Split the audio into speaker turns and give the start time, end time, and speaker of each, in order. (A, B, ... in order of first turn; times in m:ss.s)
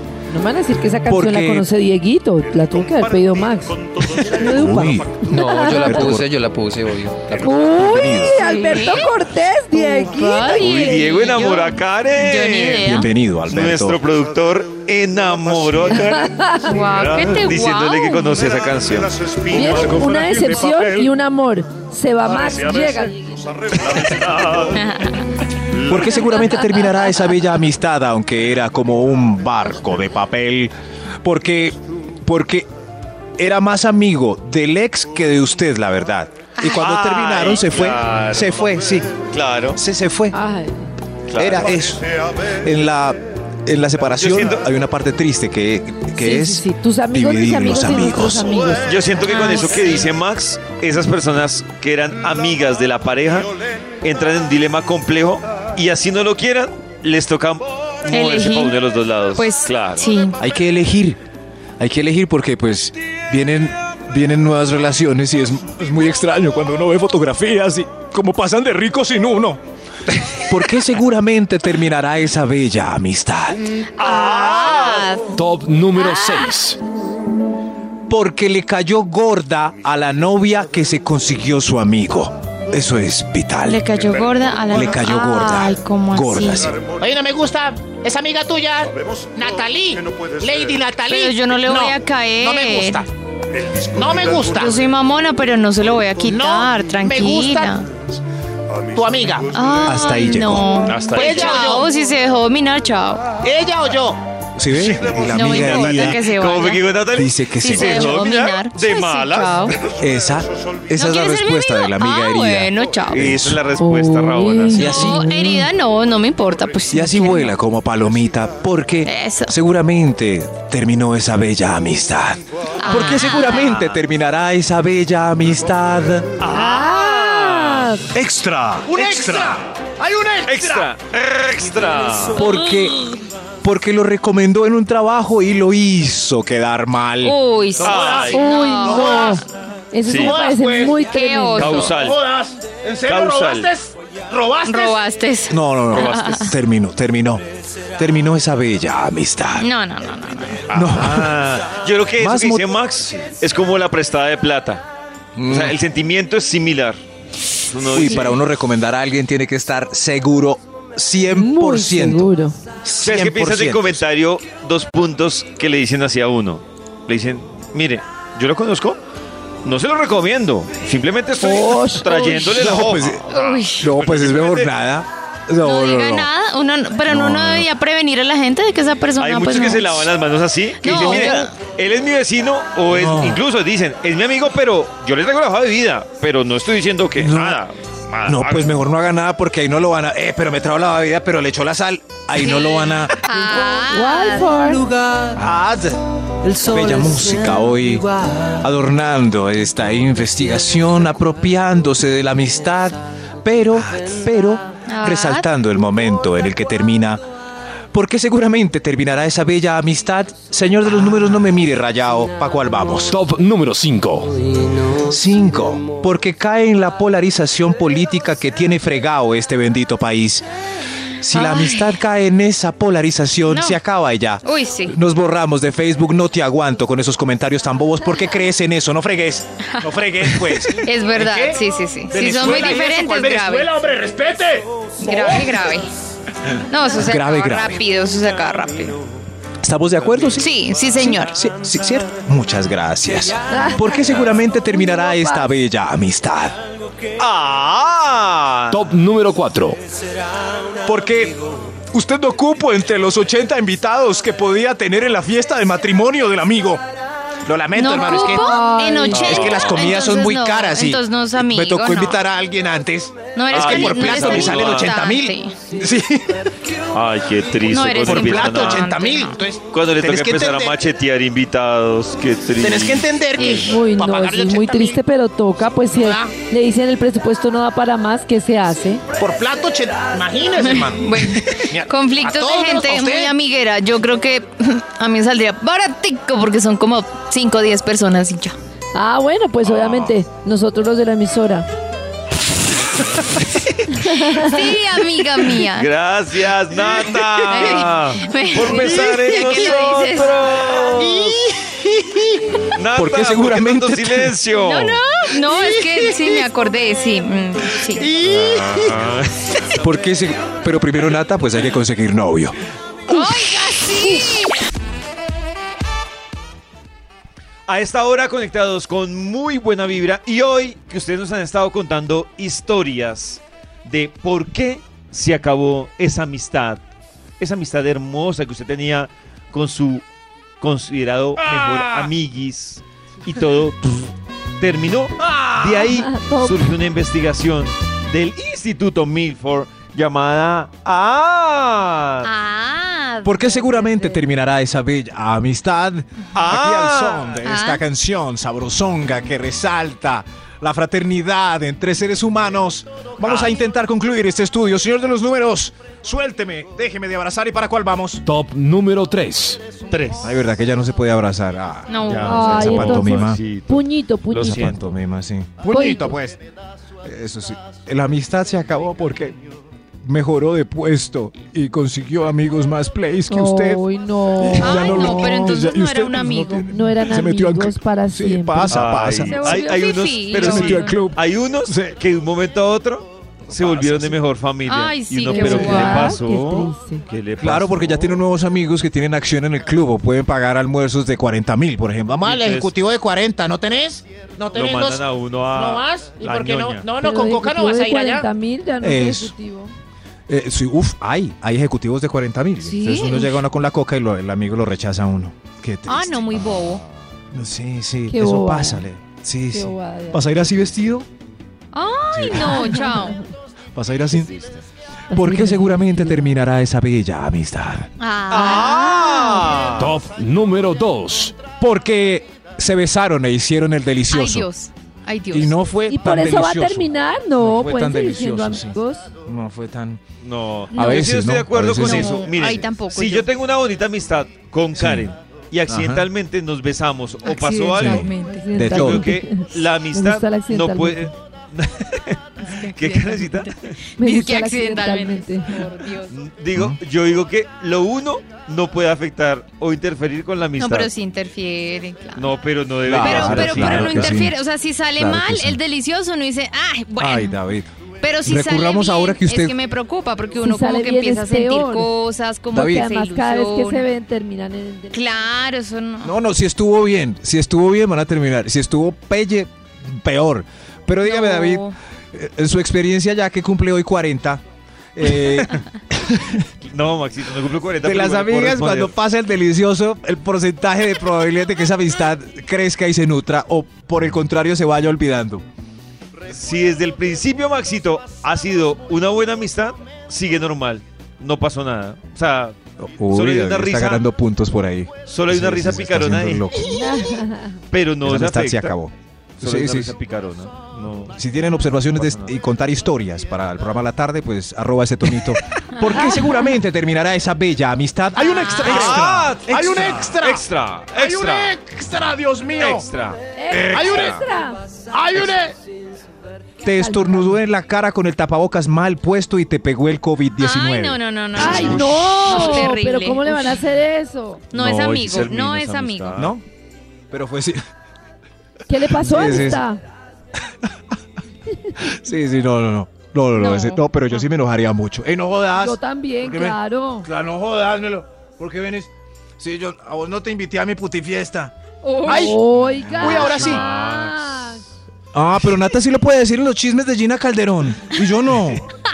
0:00.3-0:06.2 A
0:01.1-0:01.7 B
0:04.4-0:06.4 B
0:05.3-0:07.4 C
0:07.3-0:11.2 A
0:07.4-0:08.4 B
0:08.4-0:09.1 D
0:09.8-0:13.1 D
0:10.6-0:19.6 E
0:12.8-0:14.0 B
0:15.9-0:16.7 A
0:16.6-0:18.4 D
0:19.5-0:24.0 A
0:23.9-0:24.8 E
0:24.7-0:25.2 D
0:25.7-0:32.6 B
0:33.4-0:39.1 B
0:36.6-0:39.8 E
0:39.7-0:40.4 B
0:40.3-0:40.9 A
0:41.3-0:41.8 E
0:41.4-0:48.5 B
0:44.2-0:44.6 E
0:46.1-0:48.9 A
0:48.8-0:53.5 E
0:49.2-0:50.0 D
0:54.0-1:00.1 E
0:58.1-0:58.8 D
0:59.3-1:00.4 D
1:00.4-1:01.2 B
1:01.8-1:09.6 B
1:10.5-1:13.6 B
1:14.0-1:15.1 E
1:14.0-1:15.4 D
1:15.3-1:16.8 F
1:16.0-1:16.4 D
1:18.1-1:23.8 B
1:23.6-1:26.8 D
1:24.7-1:26.8 B
1:27.0-1:33.1 G
1:31.1-1:33.0 D
1:33.8-1:34.8 G
1:34.5-1:37.9 D
1:36.2-1:37.8 G
1:38.9-1:39.6 G
1:39.5-1:43.3 D
1:39.8-1:40.8 B
1:40.8-1:41.6 E
1:41.1-1:41.9 G
1:43.4-1:44.2 G
1:44.6-1:46.2 B
1:44.7-1:49.9 E
1:45.3-1:46.9 D
1:47.1-1:48.2 B
1:47.6-1:49.7 D
1:50.0-1:53.6 B
1:51.0-1:53.2 D
1:53.1-1:54.9 E
1:53.8-1:55.4 A
1:54.7-1:55.7 B
1:54.9-1:57.5 D
1:56.9-2:06.3 B
1:59.0-1:59.5 D
2:02.8-2:03.7 D
2:03.5-2:04.0 E
2:06.4-2:08.0 E
2:06.5-2:08.0 A
2:08.1-2:09.6 B
2:08.9-2:10.9 G
2:10.4-2:12.4 E
2:12.4-2:13.1 B
2:13.6-2:17.4 B
2:17.2-2:19.4 D
2:17.8-2:19.4 G
2:17.8-2:18.4 E
2:18.3-2:22.0 A
2:20.0-2:20.4 E
2:20.1-2:21.0 G
2:21.0-2:21.8 D
2:21.5-2:22.2 E
2:21.9-2:25.0 G
2:23.0-2:23.7 E
2:24.6-2:26.5 D
2:25.5-2:27.4 B
2:25.9-2:26.4 E
2:28.0-2:29.7 B
2:29.6-2:30.6 D
2:30.7-2:34.8 E
2:30.7-2:31.5 B
2:32.2-2:32.8 B
2:35.4-2:35.8 B
2:35.5-2:37.0 E
2:37.7-2:38.4 E
2:37.9-2:42.3 B
2:41.3-2:42.6 A
2:42.8-2:44.0 B
2:43.0-2:49.0 E
2:49.6-2:54.7 E
2:51.4-2:52.5 A
2:52.5-2:53.2 B
2:53.3-2:53.8 D
2:53.8-2:56.3 B
2:55.6-3:00.1 D
2:57.1-2:57.6 B
2:59.2-3:08.7 E
3:00.8-3:01.6 D
3:02.9-3:03.4 B
3:07.2-3:07.6 B
3:08.2-3:13.2 B
3:12.4-3:14.4 D
3:13.8-3:14.9 A
3:14.9-3:15.3 C
3:15.3-3:27.2 B
3:16.5-3:17.6 C
3:24.9-3:25.4 D
3:27.9-3:33.2 B
3:33.1-3:34.4 F
3:35.0-3:40.4 B
3:41.2-3:51.4 B
3:41.3-3:42.0 D
3:43.5-3:43.8 D
3:44.4-3:44.9 D
3:50.8-3:53.8 D
3:51.2-3:51.5 G
3:52.1-3:53.3 B
3:52.2-3:54.7 G
3:55.0-3:55.9 D
3:56.7-3:59.0 D
3:56.9-3:57.8 B
3:59.6-4:06.6 B
4:00.4-4:01.4 D
4:03.5-4:05.5 A
4:07.2-4:08.8 E
4:08.7-4:09.8 F
4:10.8-4:11.4 B
4:11.9-4:16.8 B
4:17.4-4:18.6 B
4:17.7-4:22.2 D
4:18.2-4:19.3 A
4:19.1-4:20.0 E
4:19.2-4:26.4 B
4:23.3-4:25.5 D
4:23.5-4:25.0 E
4:26.9-4:29.0 E
4:27.6-4:29.4 D
4:28.0-4:29.1 B
4:28.8-4:29.6 G
4:29.6-4:33.7 E
4:30.0-4:30.7 B
4:32.6-4:33.8 B
4:33.4-4:33.7 D
4:33.4-4:35.0 G
4:33.6-4:39.0 A
4:36.0-4:36.3 G
4:39.2-4:43.3 G
4:40.6-4:48.5 D
4:48.9-4:51.6 A
4:49.6-4:50.1 E
4:54.0-4:54.6 A
4:54.4-4:55.9 D
4:55.7-5:01.2 E
4:57.5-5:01.0 D
5:01.0-5:02.6 G
5:02.7-5:05.0 E
5:02.9-5:04.4 B
5:04.6-5:08.1 D
5:08.0-5:08.8 G
5:08.1-5:09.7 E
5:09.8-5:12.6 B
5:13.1-5:14.6 D
5:17.7-5:26.8 E
5:27.4-5:30.0 E
5:30.6-5:42.3 E
5:31.4-5:32.1 B
5:35.3-5:35.9 B
5:36.0-5:36.7 A
5:42.2-5:43.8 D
5:43.2-5:58.2 B
5:46.3-5:47.4 E
5:47.4-5:47.8 D
5:53.2-5:53.5 E
5:58.2-5:59.6 F
5:59.9-6:00.3 E
6:00.2-6:03.4 B
6:01.9-6:02.6 D
6:02.1-6:04.8 E
6:02.2-6:04.8 A
6:04.4-6:06.4 B
6:05.7-6:06.2 A
6:07.0-6:09.4 B
6:10.0-6:19.7 B
6:13.3-6:15.6 A
6:14.6-6:16.7 D
6:16.7-6:18.8 A
6:18.7-6:28.2 E
6:19.2-6:20.8 D
6:20.3-6:22.0 B
6:23.5-6:24.2 B
6:24.6-6:26.0 D
6:25.3-6:27.0 A
6:25.3-6:26.1 B
6:27.4-6:32.7 B
6:32.2-6:32.8 E
6:32.3-6:38.2 G
6:34.5-6:36.9 E
6:37.0-6:39.7 A
6:38.8-6:39.3 B
6:40.3-6:46.5 B
6:42.6-6:43.4 D
6:45.9-6:46.8 D
6:47.3-6:51.1 B
6:48.1-6:48.8 A
6:49.5-6:50.2 A
6:51.7-6:53.2 D
6:52.1-6:52.7 B
6:53.7-6:54.3 B
6:54.1-6:54.6 E
6:55.1-6:56.2 A
6:55.1-6:57.9 B
6:58.0-6:59.5 D
6:58.3-7:00.0 E
6:59.8-7:01.4 F
7:01.6-7:04.5 B
7:04.1-7:05.6 D
7:05.3-7:10.0 B
7:05.9-7:09.0 A
7:10.2-7:18.0 E
7:10.7-7:11.1 D
7:10.7-7:12.3 B
7:11.8-7:13.3 D
7:14.8-7:15.1 B
7:15.7-7:16.0 B
7:17.2-7:18.4 D
7:17.8-7:19.1 B
7:18.1-7:21.1 A
7:18.6-7:23.8 E
7:22.5-7:23.5 D
7:24.0-7:25.6 A
7:24.0-7:26.1 D
7:26.1-7:30.9 E
7:30.6-7:32.3 D
7:32.1-7:34.2 E
7:32.8-7:34.4 B
7:32.9-7:37.5 D
7:34.9-7:35.6 B
7:37.0-7:37.7 B
7:38.0-7:43.9 D
7:38.2-7:39.5 B
7:40.4-7:41.9 A
7:42.5-7:42.9 B
7:42.5-7:45.0 A
7:44.9-7:46.1 D
7:46.0-7:54.4 B
7:51.0-7:51.7 D
7:55.0-7:56.4 B
7:56.6-7:59.0 E
7:57.8-8:05.4 B
8:06.3-8:12.6 E
8:12.8-8:16.9 B
8:13.1-8:14.1 E
8:15.0-8:16.5 E
8:16.8-8:17.5 A
8:17.7-8:18.8 E
8:18.0-8:19.9 B
8:19.4-8:21.2 E
8:21.1-8:30.4 B
8:21.9-8:22.3 E
8:28.2-8:28.8 D
8:28.6-8:31.6 E
8:31.0-8:32.8 B
8:32.6-8:34.2 E
8:33.4-8:34.6 A
8:33.9-8:34.2 B
8:34.9-8:35.3 G
8:36.6-8:42.2 B
8:36.7-8:37.4 A
8:40.4-8:43.6 D
8:41.4-8:42.3 E
8:41.4-8:44.4 A
8:44.5-8:46.3 E
8:44.5-8:46.3 D
8:46.2-8:46.4 B
8:47.1-8:47.6 B
8:48.7-8:49.8 A
8:48.8-8:49.6 B
8:51.8-9:01.5 B
8:53.3-8:54.2 D
8:55.5-8:57.1 A
9:01.8-9:02.3 D
9:02.0-9:04.6 A
9:02.0-9:03.6 B
9:02.6-9:04.2 E
9:05.1-9:08.6 B